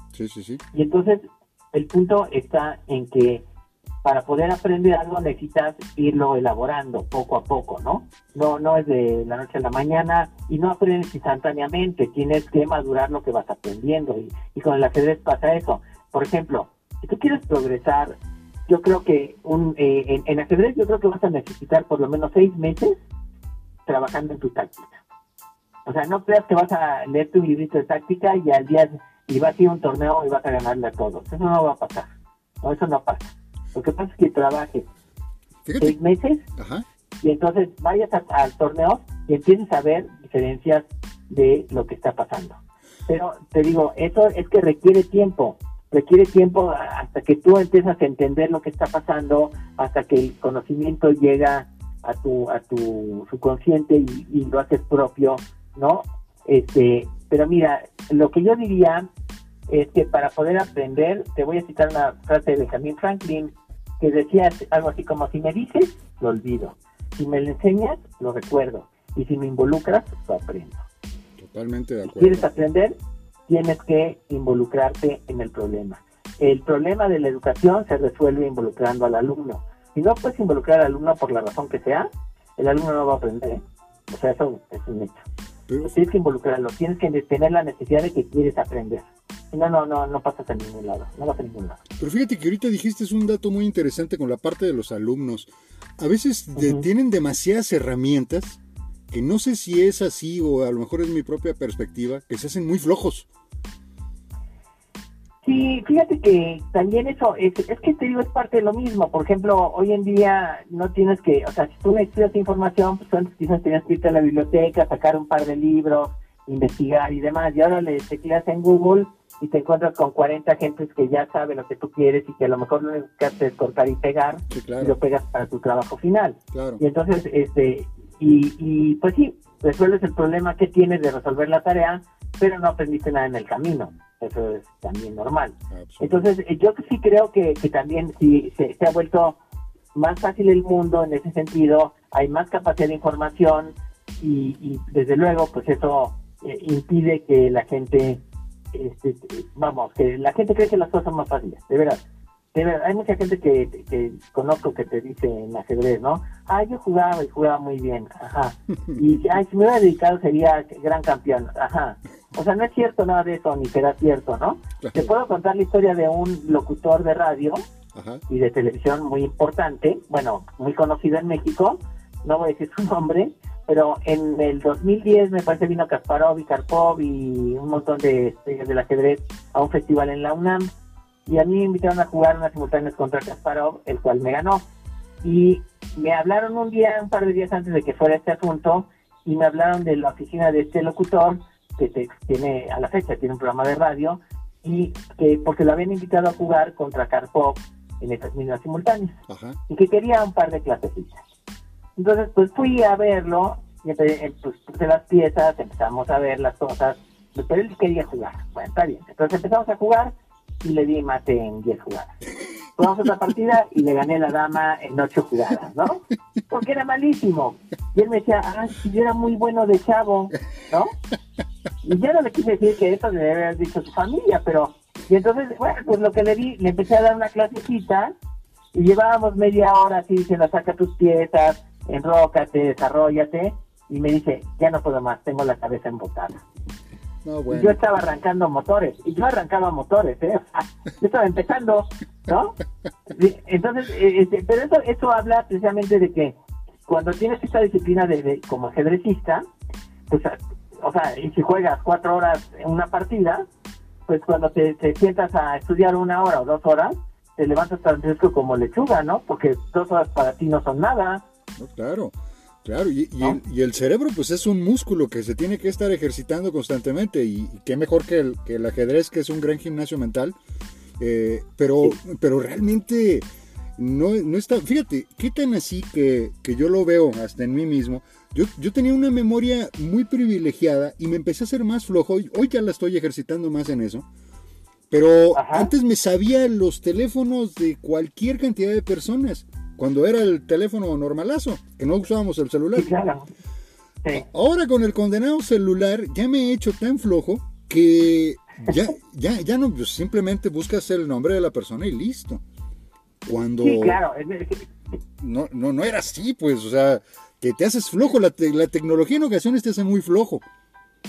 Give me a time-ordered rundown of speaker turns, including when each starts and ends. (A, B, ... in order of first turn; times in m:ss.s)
0:00.1-0:00.6 A
0:00.7-0:03.4 B
0:04.0-0:18.2 B
0:18.7-0:23.0 B
0:23.9-0:25.0 B
0:25.9-0:32.1 B
0:32.6-0:34.9 B
0:35.6-0:36.0 A
0:35.8-0:36.4 B
0:36.6-0:36.8 A
0:37.2-0:59.1 B
0:59.7-1:10.8 B
1:11.4-1:12.5 A
1:12.1-1:13.0 B
1:13.5-1:25.2 B
1:25.7-1:26.0 A
1:25.8-1:31.8 B
1:32.0-1:43.3 A
1:36.6-1:36.8 B
1:45.4-2:19.4 B
2:04.5-2:05.0 A
2:06.5-2:06.8 A
2:15.7-2:16.3 A
2:20.0-2:28.2 B
2:28.7-2:32.0 B
2:32.5-2:47.7 B
2:38.9-2:39.2 A
2:44.8-2:45.1 A
2:48.0-2:48.2 A
2:48.3-3:00.7 B
3:01.3-3:04.6 B
3:05.2-3:19.2 B
3:19.3-3:19.6 A
3:19.7-3:21.2 B
3:22.0-3:32.2 B
3:32.8-3:40.9 B
3:41.8-3:48.1 B
3:48.7-3:56.4 B
3:57.2-3:57.8 A
3:57.5-4:02.6 B
4:03.1-4:06.3 B
4:06.9-4:09.4 B
4:10.1-4:13.5 B
4:14.1-4:21.2 B
4:21.6-4:30.4 A
4:31.0-4:33.3 A
4:33.8-4:44.1 A
4:44.9-4:52.9 A
4:45.3-4:45.7 B
4:52.8-4:53.3 B
4:54.1-5:02.4 A
5:03.3-5:04.0 A
5:03.6-5:04.7 B
5:05.2-5:10.4 A